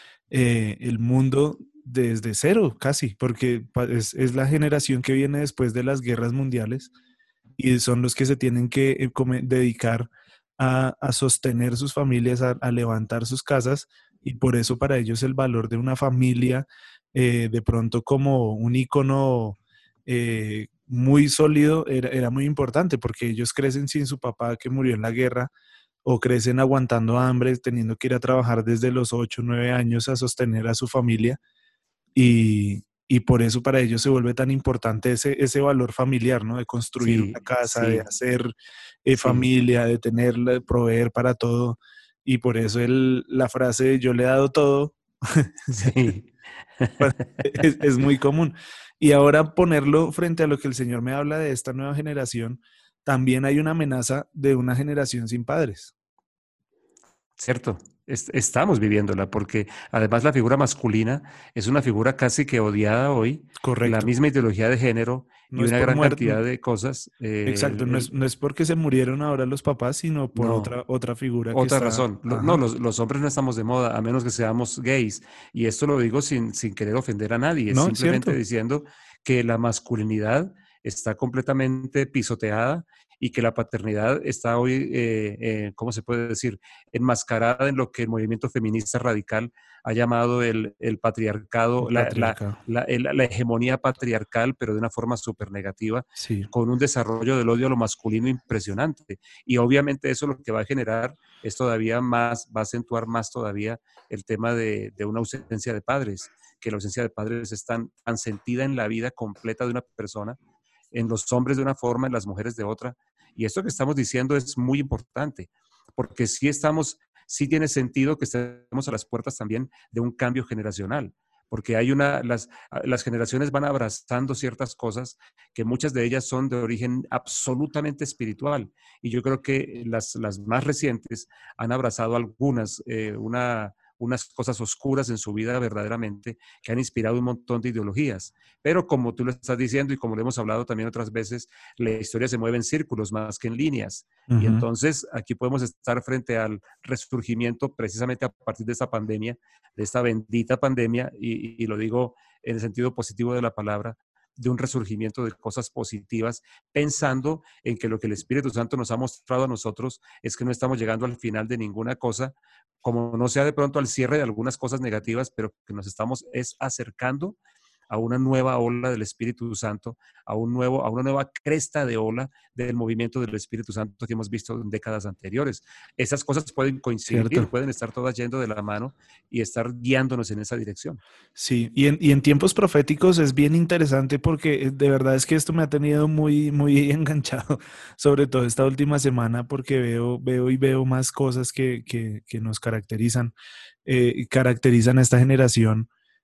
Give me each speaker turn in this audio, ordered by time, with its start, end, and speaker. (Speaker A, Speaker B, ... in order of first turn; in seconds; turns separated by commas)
Speaker A: 0.3-6.9, Speaker A: 7.6-25.5, Speaker A: 26.0-31.4, Speaker A: 32.1-38.5, Speaker B: 37.0-38.0, Speaker A: 39.0-46.0, Speaker B: 39.2-39.5, Speaker B: 45.7-47.4, Speaker A: 47.0-55.9, Speaker B: 57.4-68.1, Speaker A: 63.6-64.1, Speaker A: 65.5-66.4, Speaker A: 67.5-72.6, Speaker B: 70.3-70.7, Speaker B: 71.5-110.4, Speaker A: 77.7-78.4, Speaker A: 91.8-92.6, Speaker A: 96.2-96.5, Speaker B: 110.9-167.4, Speaker A: 144.3-144.7, Speaker B: 167.9-181.0, Speaker A: 177.1-177.5, Speaker A: 181.3-193.3, Speaker A: 193.8-195.9